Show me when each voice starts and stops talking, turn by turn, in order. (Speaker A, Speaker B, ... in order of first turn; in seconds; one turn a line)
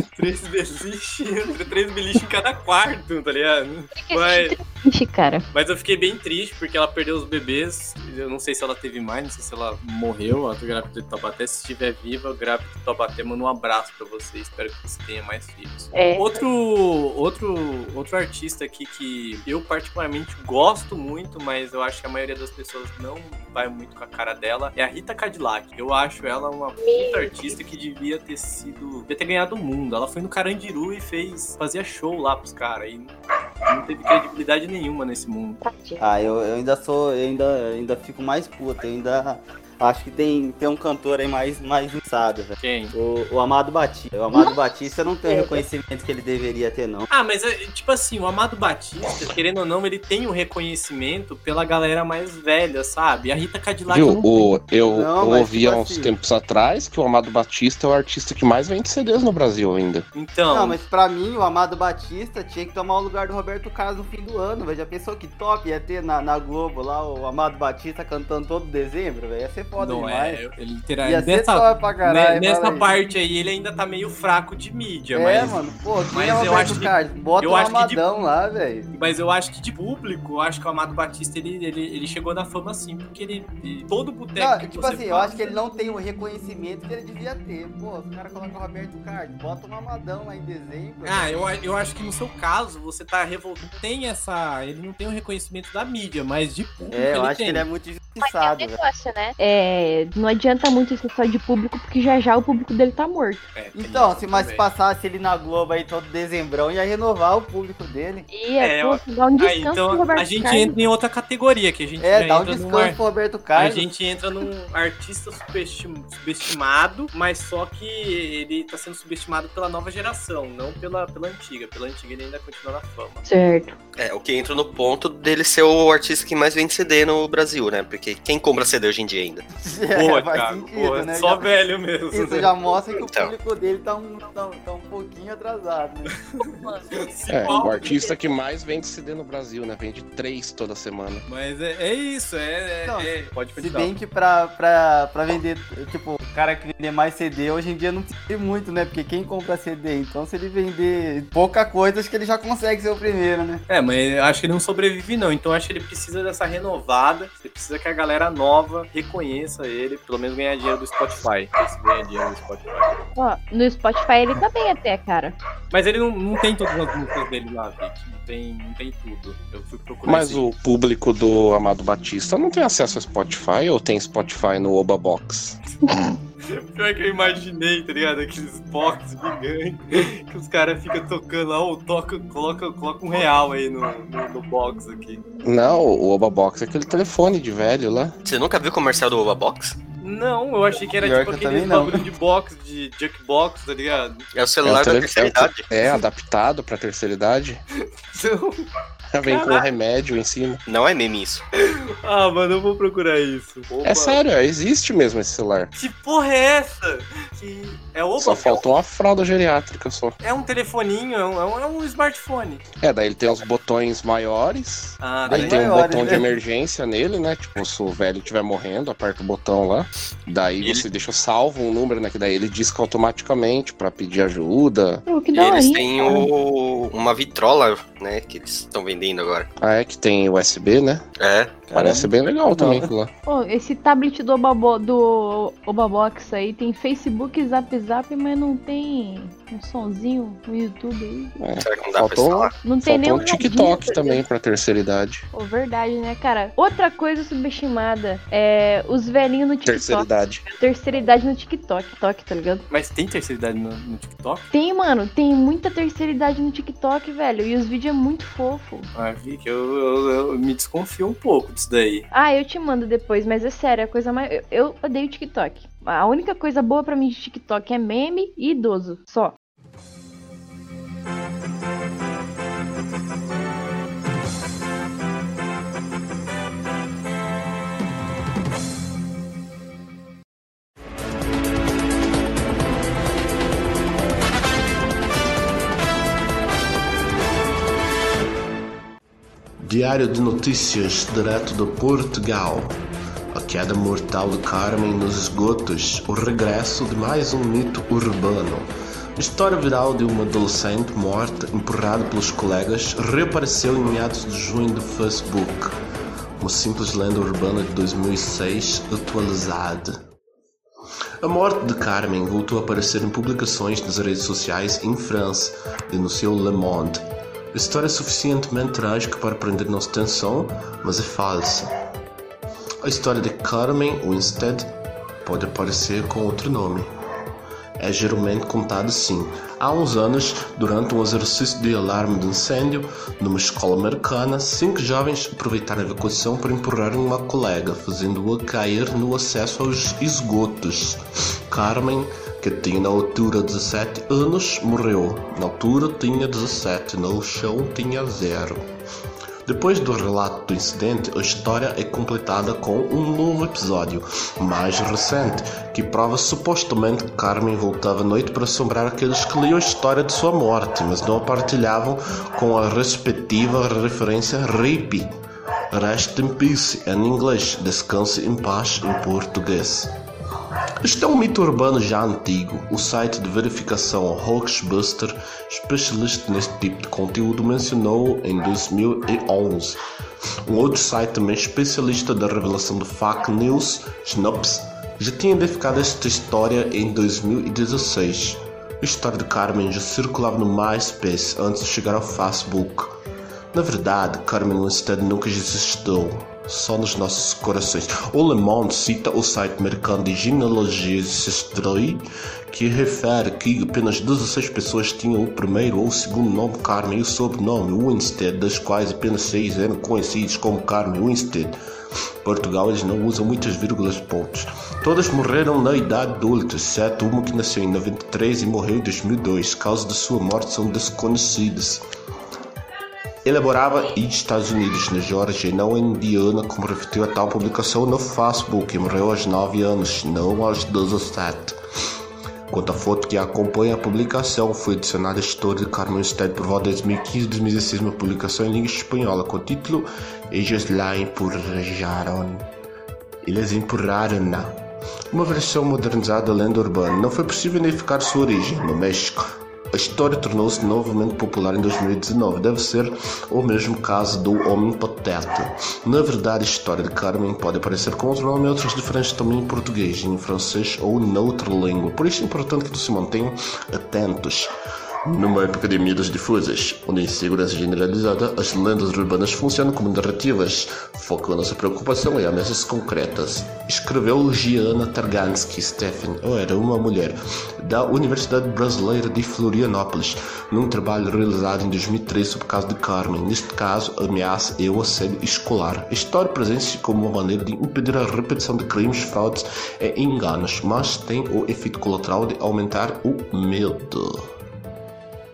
Speaker A: 0.1-4.6
Speaker B: 3.9-5.5
Speaker A: 5.5-35.6
Speaker B: 15.9-16.4
Speaker B: 26.8-27.6
Speaker B: 35.6-36.1
Speaker C: 36.0-47.1
Speaker A: 42.6-42.9
Speaker B: 45.2-45.6
Speaker A: 47.1-54.5
Speaker D: 53.9-60.1
Speaker C: 54.8-56.1
Speaker A: 60.1-60.8
Speaker C: 60.5-70.4
Speaker A: 69.8-75.6
Speaker C: 71.0-72.9
Speaker C: 75.2-78.9
Speaker A: 76.1-78.0
Speaker A: 78.9-85.6
Speaker C: 84.4-91.3
Speaker A: 91.0-97.7
Speaker C: 96.9-98.8
Speaker B: 98.2-103.5
Speaker A: 103.5-104.7
Speaker C: 103.8-108.3
Speaker B: 108.3-110.8
Speaker A: 108.6-113.0
Speaker C: 112.0-113.9
Speaker A: 113.6-123.2
Speaker B: 123.2-123.8
Speaker E: 124.0-129.4
Speaker C: 129.6-131.4
Speaker A: 129.9-132.5
Speaker C: 132.1-136.2
Speaker E: 133.0-133.3
Speaker A: 136.4-138.0
Speaker B: 136.5-138.2
Speaker D: 137.3-141.3
Speaker A: 141.3-143.9
Speaker C: 142.8-153.6
Speaker A: 153.7-163.0
Speaker B: 163.2-165.4
Speaker A: 165.7-170.4
Speaker D: 170.1-175.6
Speaker A: 176.5-185.2
Speaker D: 185.4-188.1
Speaker E: 188.2-189.8
Speaker A: 190.0-194.2
Speaker C: 191.0-192.1
Speaker E: 194.3-195.9
Speaker D: 194.6-197.6
Speaker A: 198.1-198.7
Speaker D: 199.1-200.6
Speaker A: 199.2-199.7
Speaker E: 200.7-201.4
Speaker A: 201.6-204.2
Speaker D: 203.8-205.7
Speaker A: 205.7-208.6
Speaker D: 208.2-210.2
Speaker A: 210.2-212.6
Speaker D: 212.8-225.0
Speaker A: 215.0-216.2
Speaker C: 215.3-216.3
Speaker A: 220.6-220.9
Speaker B: 225.1-226.3
Speaker E: 225.3-229.5
Speaker D: 229.6-231.0
Speaker E: 231.2-231.6
Speaker C: 231.7-232.9
Speaker D: 231.7-233.1
Speaker B: 233.3-241.3
Speaker D: 241.4-245.2
Speaker E: 241.6-242.5
Speaker B: 242.6-244.2
Speaker B: 245.3-252.7
Speaker D: 249.7-250.4
Speaker A: 252.7-254.5
Speaker B: 254.5-258.9
Speaker A: 258.9-262.1
Speaker B: 262.1-269.3
Speaker F: 289.6-292.8
Speaker F: 293.3-305.8
Speaker F: 306.4-309.9
Speaker F: 311.2-317.0
Speaker F: 317.5-321.7
Speaker F: 322.8-324.7
Speaker F: 325.2-326.9
Speaker F: 327.8-348.6
Speaker F: 349.5-365.1
Speaker F: 365.7-369.9
Speaker F: 370.8-379.8
Speaker F: 380.5-392.9
Speaker F: 393.5-411.6
Speaker F: 412.2-421.8
Speaker F: 423.2-431.6
Speaker F: 432.5-442.4
Speaker F: 443.2-444.5
Speaker F: 445.1-449.2
Speaker F: 449.7-464.5
Speaker F: 465.1-494.1